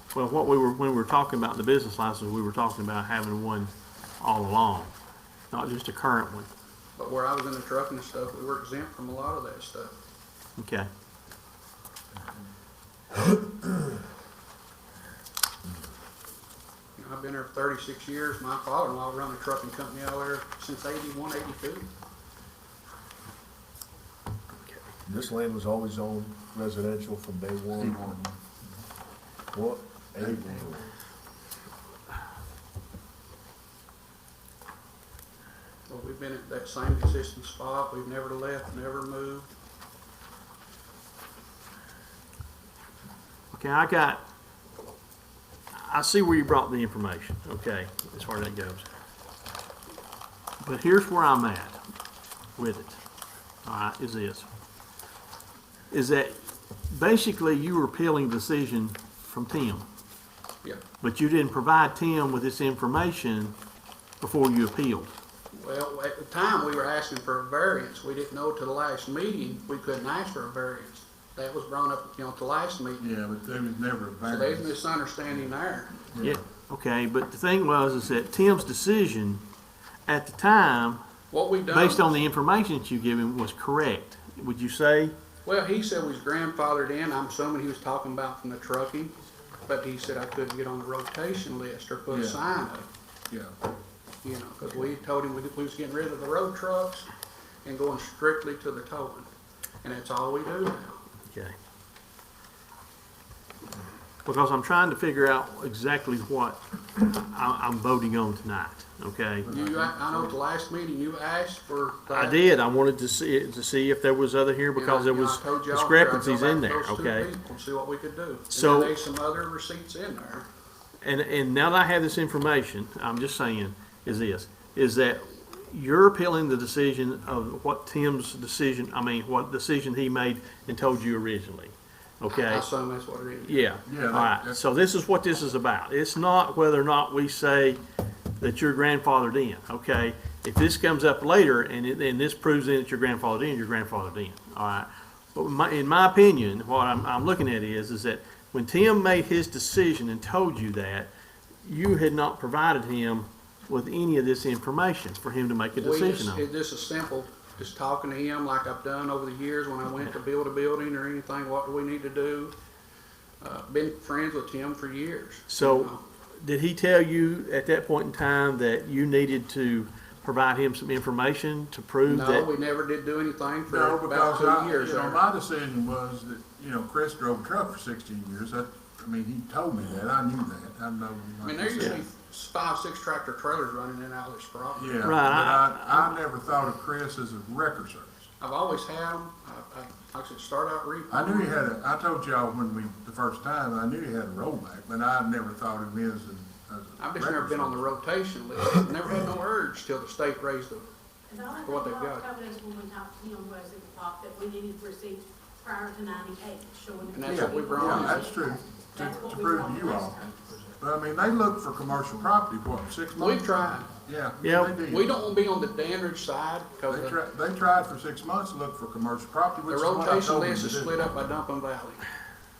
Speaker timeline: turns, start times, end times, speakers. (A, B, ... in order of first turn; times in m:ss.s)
0:00.1-0:04.9 A
0:05.5-0:06.5 A
0:07.0-0:10.0 B
0:10.6-0:10.9 A
0:17.0-0:21.9 B
0:25.0-0:28.2 C
0:27.8-0:28.3 D
0:29.5-0:30.9 C
0:30.2-0:30.5 D
0:35.9-0:39.5 B
0:43.5-0:44.2 A
0:45.7-0:48.8 A
0:50.6-0:51.8 A
0:52.6-0:53.0 A
0:53.6-0:54.5 A
0:55.9-0:59.8 A
1:01.0-1:03.5 A
1:04.2-1:05.1 A
1:05.5-1:13.1 B
1:13.0-1:14.8 D
1:14.3-1:16.0 B
1:16.1-1:16.4 D
1:16.2-1:19.4 A
1:20.1-1:21.0 A
1:21.3-1:22.2 B
1:21.7-1:25.1 A
1:25.4-1:32.9 B
1:32.1-1:32.4 D
1:34.2-1:37.1 B
1:37.6-1:39.3 B
1:39.8-1:41.0 B
1:44.2-1:49.5 A
1:49.4-1:50.4 D
1:49.5-1:52.4 B
1:52.1-1:57.3 A
1:54.8-2:00.5 B
1:58.5-1:59.0 A
2:01.0-2:12.6 A
2:12.3-2:13.7 B
2:13.4-2:17.8 A
2:13.8-2:14.6 D
2:18.4-2:31.1 A
2:31.6-2:36.4 A
2:35.7-2:42.5 B
2:43.4-2:46.0 B
2:45.5-2:52.5 A
2:52.0-2:55.2 B
2:53.7-3:02.0 D
3:01.4-3:05.1 B
3:04.7-3:08.3 D
3:05.0-3:06.2 A
3:08.4-3:11.6 B
3:11.1-3:17.9 D
3:17.0-3:20.9 B
3:21.3-3:30.5 E
3:21.6-3:22.3 B
3:27.1-3:28.3 B
3:27.3-3:30.3 D
3:30.8-3:35.1 D
3:33.1-3:33.9 B
3:34.4-3:34.7 A
3:34.8-3:37.2 B
3:36.9-3:41.3 D
3:39.7-3:42.0 B